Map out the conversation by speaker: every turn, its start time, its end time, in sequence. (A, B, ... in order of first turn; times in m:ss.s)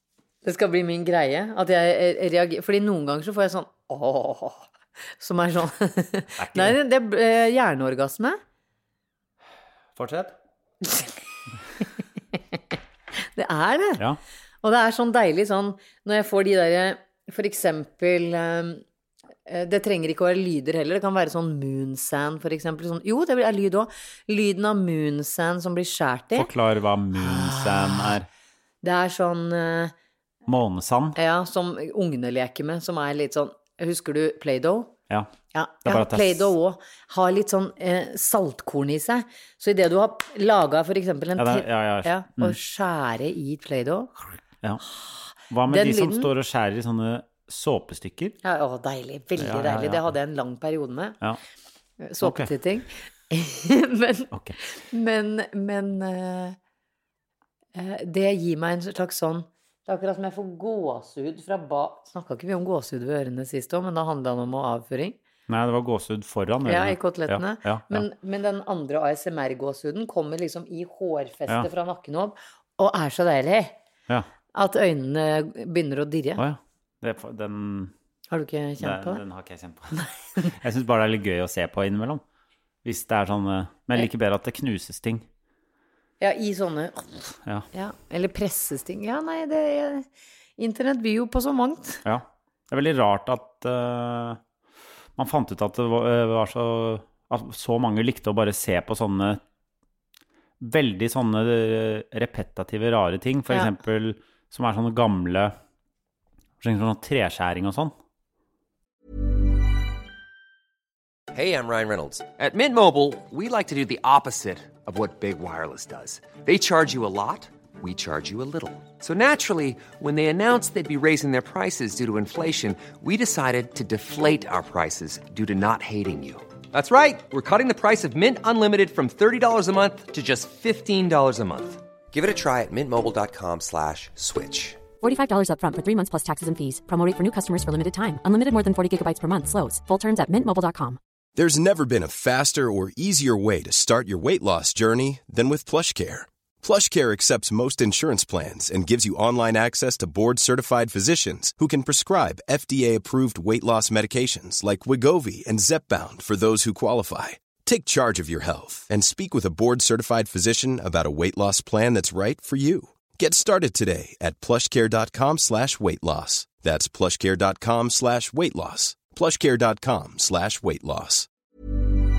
0:00.4-0:04.6 A
0:05.2-0:08.4 A
0:06.4-0:06.8 B
0:10.0-0:10.3 B
0:13.2-0:14.0 A
0:14.6-0:18.8 A
0:19.5-0:26.5 A
0:26.4-0:28.3 B
0:27.2-0:28.2 A
0:28.8-0:29.9 A
0:30.5-0:31.2 B
0:31.2-0:34.9 A
0:35.5-0:44.1 A
0:35.8-0:36.5 B
0:41.4-0:42.6 B
0:45.5-0:48.4 B
0:45.7-0:46.3 A
0:48.4-0:51.2 A
0:49.4-0:50.1 B
0:52.0-0:56.6 A
0:52.2-0:52.5 B
0:54.3-0:54.6 B
0:57.7-1:05.2 A
1:05.5-1:08.0 B
1:06.6-1:13.8 A
1:14.5-1:16.4 A
1:16.4-1:17.9 B
1:18.3-1:19.2 A
1:18.8-1:22.2 B
1:19.9-1:20.5 A
1:22.8-1:25.2 B
1:26.2-1:30.1 A
1:30.6-1:32.0 A
1:32.0-1:34.4 B
1:35.2-1:39.4 B
1:40.6-1:45.5 B
1:46.6-1:47.9 B
1:51.3-2:14.8 C
2:15.0-2:21.0 D
2:21.4-2:51.3 E